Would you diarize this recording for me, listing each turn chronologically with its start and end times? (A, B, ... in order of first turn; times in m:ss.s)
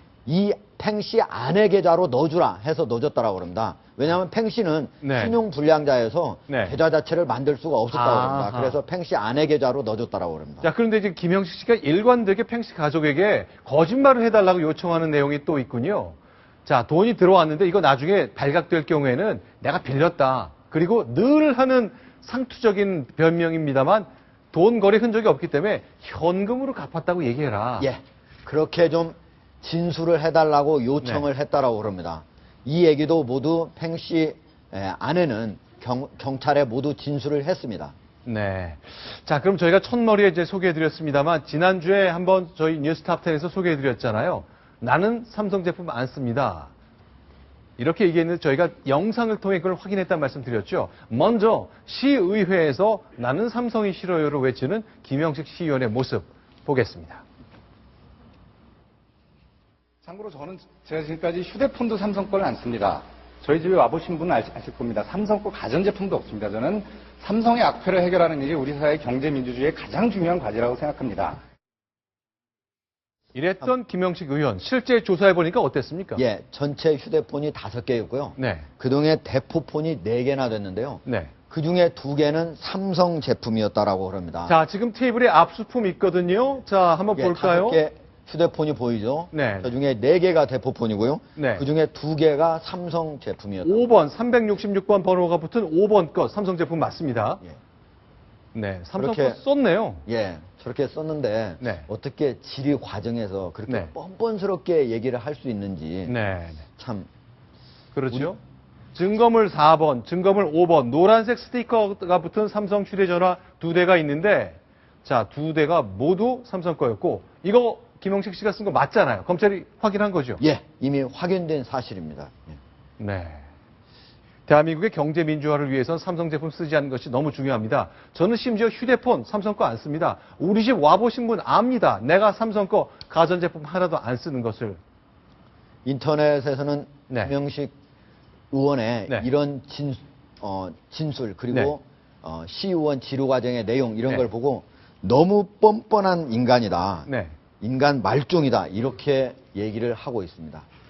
0:00.3-0:10.7 A
0:05.0-0:05.4 B
0:06.5-0:06.8 B
0:07.9-0:08.8 B
0:10.6-0:27.9 B
0:27.8-0:37.9 A
0:31.0-0:31.3 B
0:38.3-0:46.7 B
0:47.8-0:57.2 B
1:00.0-1:11.4 C
1:13.3-1:16.2 B
1:16.2-1:24.6 A
1:18.4-1:18.7 B
1:21.0-1:21.3 B
1:24.5-1:27.8 B
1:27.2-1:33.8 A
1:29.3-1:29.8 B
1:31.4-1:31.7 B
1:33.6-1:37.4 B
1:38.5-1:40.0 B
1:39.0-1:39.4 A
1:40.1-1:46.2 A
1:41.6-1:41.9 B
1:43.7-1:43.9 B
1:46.1-1:46.6 B
1:46.8-1:47.1 A
1:47.9-1:48.4 B
1:49.0-2:00.4 B
2:00.4-2:02.6 A
2:03.0-2:03.5 B
2:04.5-2:14.8 B
2:15.8-2:17.7 A
2:17.1-2:17.3 B
2:18.5-2:27.1 A
2:27.1-2:27.4 B
2:27.6-2:30.7 A